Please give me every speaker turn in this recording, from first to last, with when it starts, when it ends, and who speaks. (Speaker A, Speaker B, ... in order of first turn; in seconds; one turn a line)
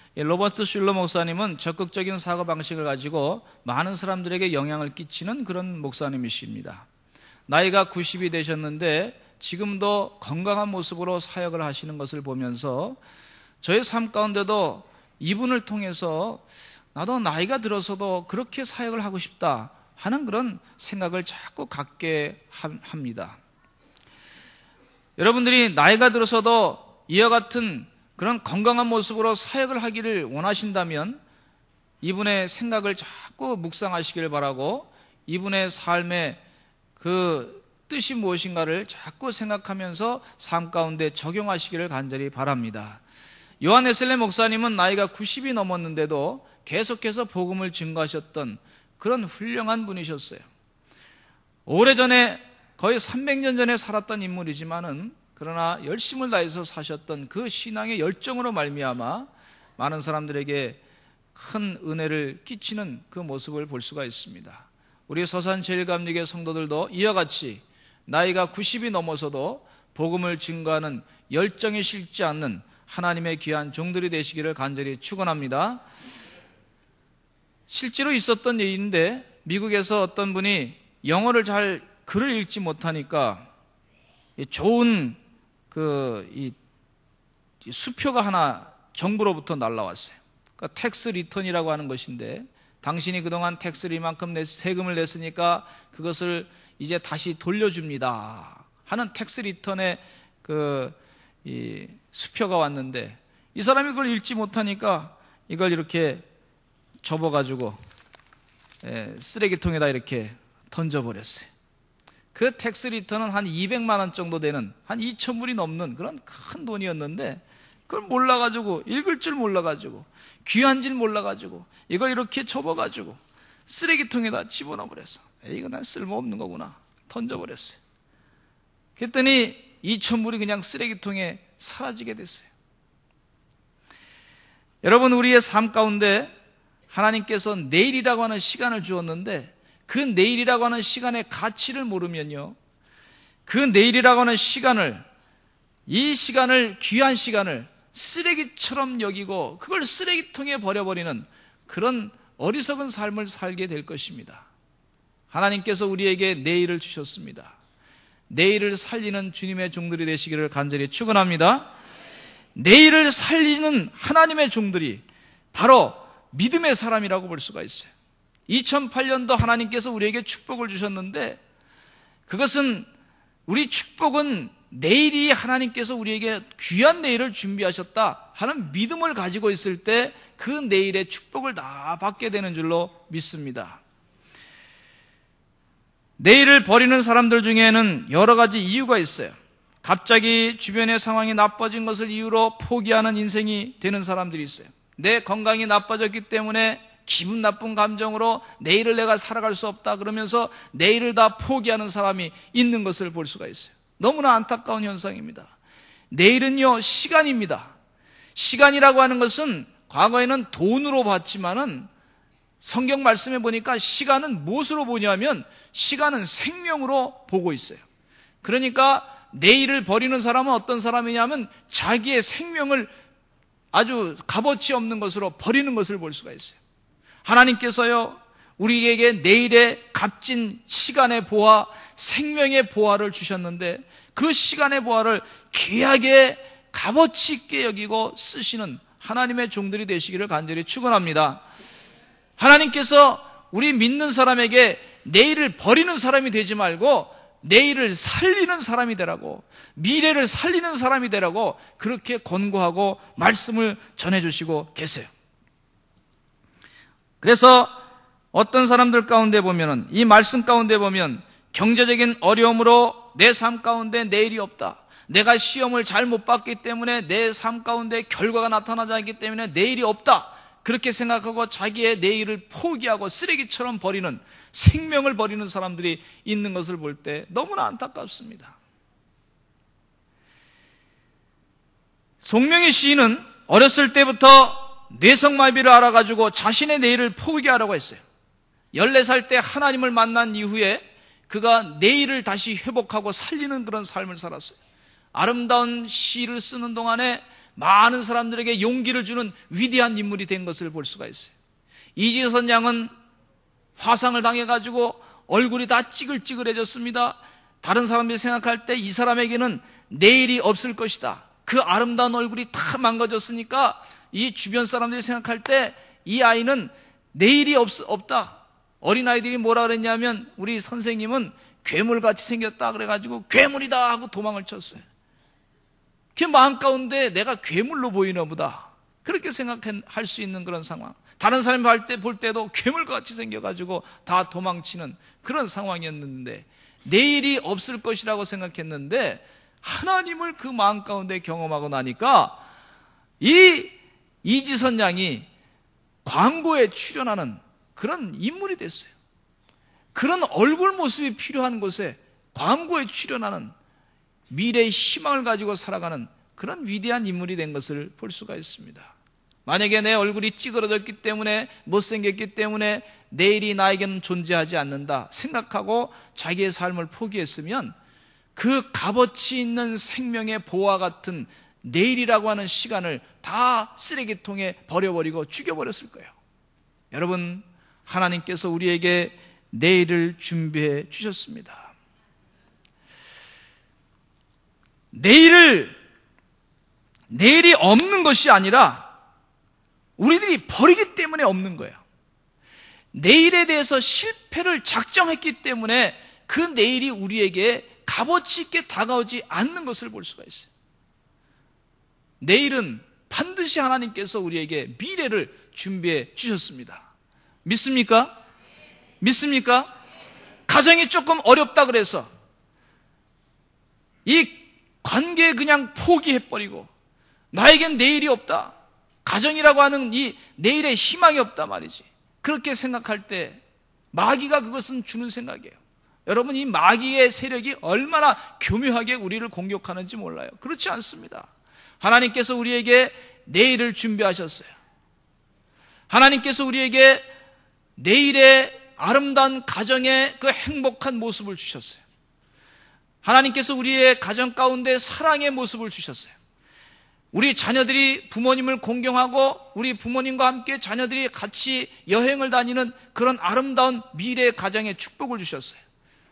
Speaker A: 0.2-6.9
Speaker A: 7.5-13.0
Speaker A: 13.6-23.4
Speaker A: 25.2-31.2
Speaker A: 32.0-36.4
Speaker A: 37.0-43.0
Speaker A: 43.6-50.5
Speaker A: 51.7-60.8
Speaker A: 61.3-75.8
Speaker A: 77.7-83.5
Speaker A: 84.4-85.2
Speaker A: 85.7-86.5
Speaker A: 87.6-106.2
Speaker A: 107.0-107.8
Speaker A: 108.8-111.5
Speaker A: 112.3-127.8
Speaker A: 129.0-132.5
Speaker A: 134.8-136.3
Speaker A: 136.9-142.6
Speaker A: 143.5-145.1
Speaker A: 145.9-154.5
Speaker A: 155.3-157.6
Speaker A: 158.3-161.7
Speaker A: 162.6-167.9
Speaker A: 168.5-171.4
Speaker A: 172.3-172.9
Speaker A: 173.5-183.8
Speaker A: 186.2-205.5
Speaker A: 206.1-207.7
Speaker A: 208.3-211.9
Speaker A: 212.6-217.8
Speaker A: 218.4-222.9
Speaker A: 223.7-226.6
Speaker A: 227.2-241.4
Speaker A: 242.4-255.1
Speaker A: 257.2-257.7
Speaker A: 258.3-278.6
Speaker A: 282.2-288.0
Speaker A: 288.7-294.6
Speaker A: 295.1-301.3
Speaker A: 301.9-302.9
Speaker A: 303.8-324.8
Speaker A: 326.1-342.4
Speaker A: 343.2-345.3
Speaker A: 346.1-348.9
Speaker A: 349.9-353.5
Speaker A: 354.3-358.9
Speaker A: 359.4-367.8
Speaker A: 368.4-376.1
Speaker A: 376.9-381.7
Speaker A: 384.9-385.8
Speaker A: 387.1-388.9
Speaker A: 390.0-391.8
Speaker A: 392.9-400.5
Speaker A: 402.2-406.9
Speaker A: 407.4-408.1
Speaker A: 409.0-409.7
Speaker A: 410.5-412.1
Speaker A: 414.1-416.7
Speaker A: 417.3-423.4
Speaker A: 423.9-431.3
Speaker A: 431.8-434.5
Speaker A: 435.9-437.1
Speaker A: 437.8-441.8
Speaker A: 443.0-446.1
Speaker A: 447.1-455.6